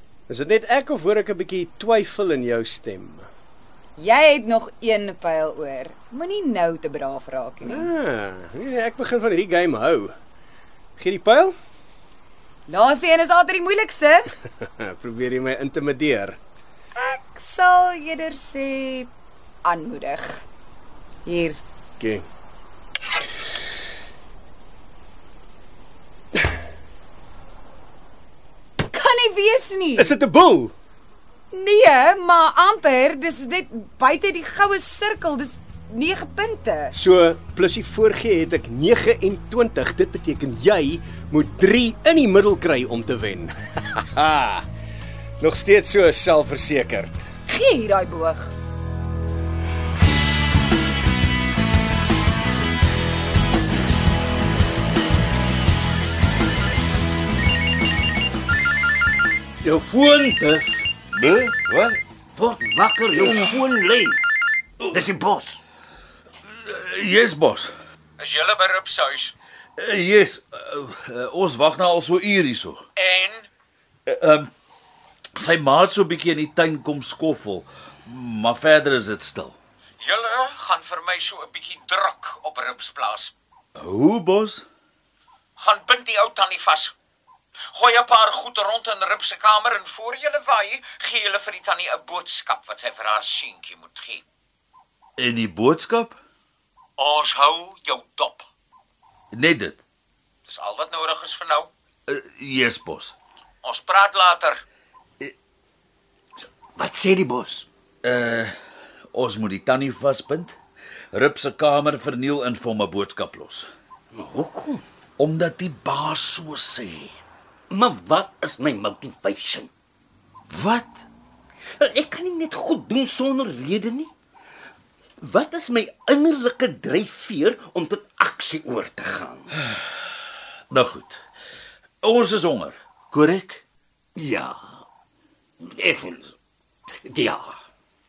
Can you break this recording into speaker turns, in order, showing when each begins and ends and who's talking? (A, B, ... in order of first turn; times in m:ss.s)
0:00.3-0:03.2 A
0:04.0-0:07.9 B
0:07.6-0:10.1 A
0:11.0-0:11.6 A
0:12.7-0:14.3 B
0:14.6-0:16.4 A
0:17.0-0:19.1 B
0:19.6-0:20.4 B
0:21.2-0:21.6 B
0:22.0-0:22.2 A
0:28.9-0:30.1 B
0:30.0-0:30.8 A
0:31.5-0:37.0 B
0:36.9-0:44.7 A
0:45.4-0:47.3 A
0:47.5-0:48.5 B
0:59.6-1:00.9 C
1:01.2-1:02.0 D
1:02.4-1:04.2 C
1:03.2-1:03.7 D
1:04.9-1:05.6 C
1:06.4-1:07.7 D
1:08.2-1:09.3 E
1:09.8-1:12.9 D
1:13.0-1:13.5 E
1:14.1-1:14.5 D
1:15.4-1:19.6 D
1:20.0-1:23.3 E
1:23.8-1:24.7 D
1:25.6-1:26.9 E
1:27.7-1:34.2 E
1:35.2-1:36.2 D
1:37.0-1:38.5 E
1:39.3-1:39.8 D
1:40.5-1:41.7 E
1:42.1-1:43.2 D
1:43.6-1:44.6 E
1:46.8-1:47.6 C
1:48.0-1:48.5 D
1:49.1-1:50.6 D
1:51.1-1:53.7 D
1:54.1-1:54.8 C
1:55.2-1:57.2 D
1:57.7-1:59.7 C
2:00.5-2:01.0 D
2:01.8-2:04.1 C
2:05.2-2:09.5 C
2:10.7-2:11.2 D
2:12.0-2:13.6 D
2:14.2-2:14.8 C
2:15.6-2:16.3 C
2:17.0-2:17.6 C